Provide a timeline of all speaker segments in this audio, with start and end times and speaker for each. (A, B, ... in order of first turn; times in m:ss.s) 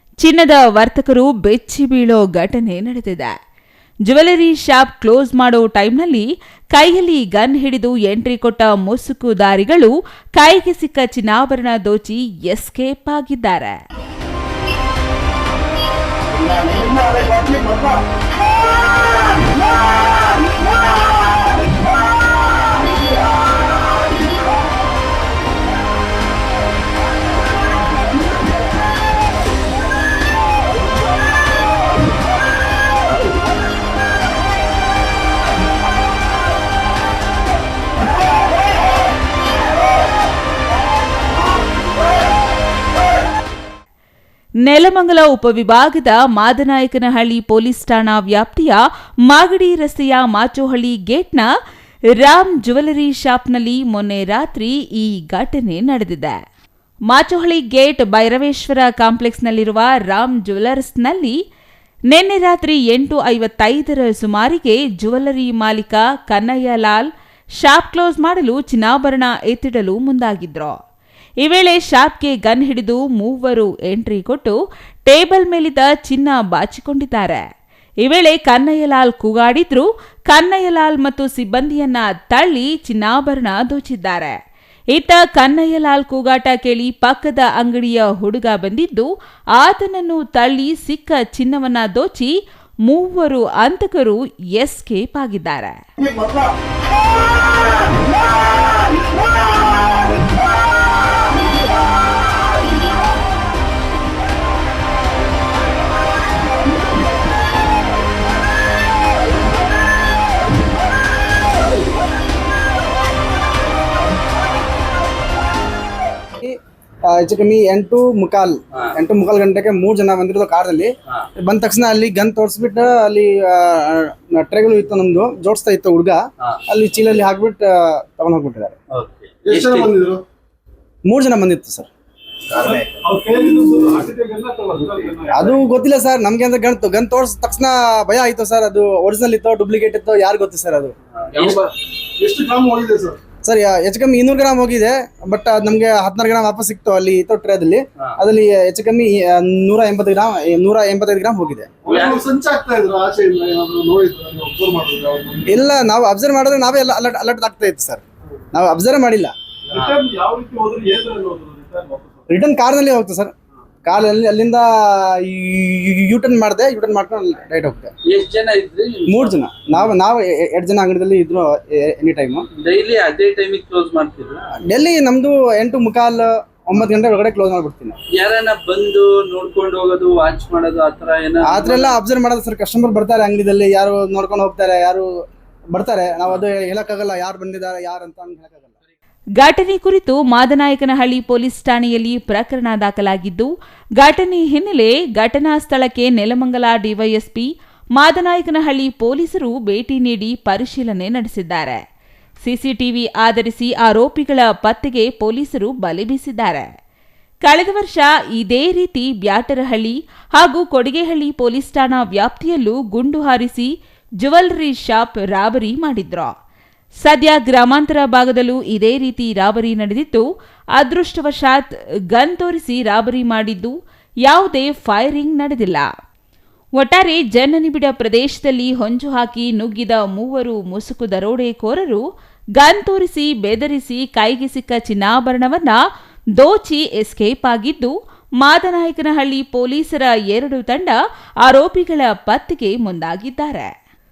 0:00.2-0:03.3 A
0:04.1-0:13.8 A
0:44.6-0:51.5 A
0:52.2-0:56.4 A
0:57.1-1:01.4 A
1:02.1-1:07.1 A
1:07.6-1:10.8 A
1:11.4-1:17.4 A
1:18.0-1:24.4 A
1:24.9-1:32.3 A
1:32.9-1:35.8 A
1:57.1-2:08.8 B
2:08.9-2:09.9 C
2:09.4-2:10.2 D
2:11.1-2:11.9 B
2:12.6-2:15.6 D
2:15.3-2:20.9 B
2:21.2-2:21.6 C
2:21.4-2:23.2 D
2:23.4-2:31.7 B
2:31.8-2:35.6 D
2:31.9-2:32.3 C
2:35.5-2:39.3 B
2:39.7-2:42.2 D
2:42.3-2:43.3 B
2:43.8-2:47.9 B
2:48.1-2:49.4 C
2:49.1-2:52.5 B
2:52.6-2:54.6 C
2:54.7-2:58.0 B
2:58.1-3:02.0 C
3:01.4-3:05.0 B
3:05.7-3:08.8 B
3:09.4-3:21.8 A
3:22.4-3:26.7 A
3:27.4-3:36.3 A
3:37.0-3:43.7 A
3:44.2-3:45.9 A
3:46.8-3:52.0 A
3:52.6-3:55.8 A
3:56.4-4:03.7 A